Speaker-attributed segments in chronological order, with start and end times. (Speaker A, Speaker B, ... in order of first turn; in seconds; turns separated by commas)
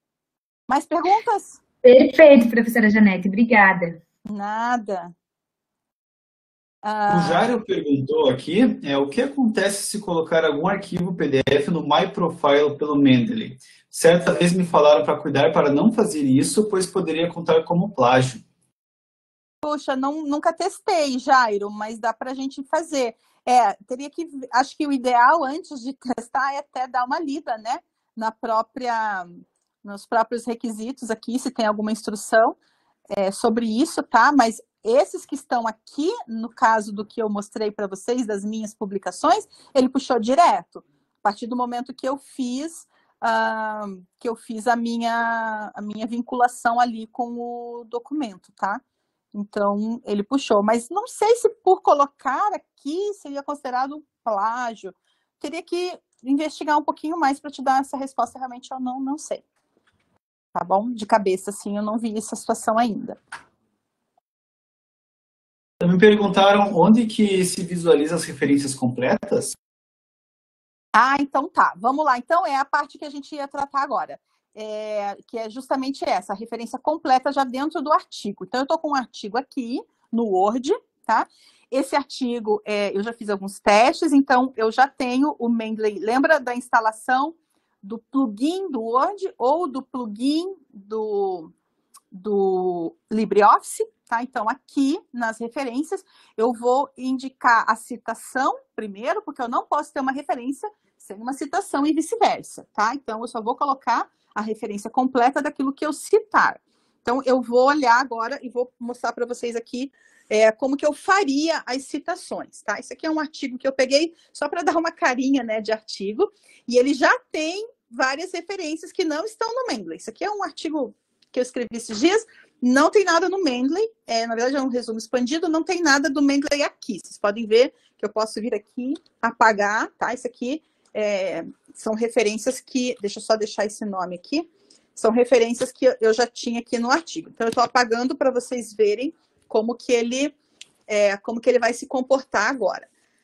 Speaker A: 0.7-1.6, Speaker B: 1.8-4.0, Speaker A: 4.3-5.1, Speaker A: 6.8-7.5, Speaker C: 7.1-18.4, Speaker A: 19.6-32.6, Speaker A: 33.1-48.8, Speaker A: 49.3-59.4, Speaker A: 60.5-63.2, Speaker C: 65.8-69.5, Speaker A: 70.9-91.5, Speaker A: 92.1-140.3, Speaker A: 140.9-142.9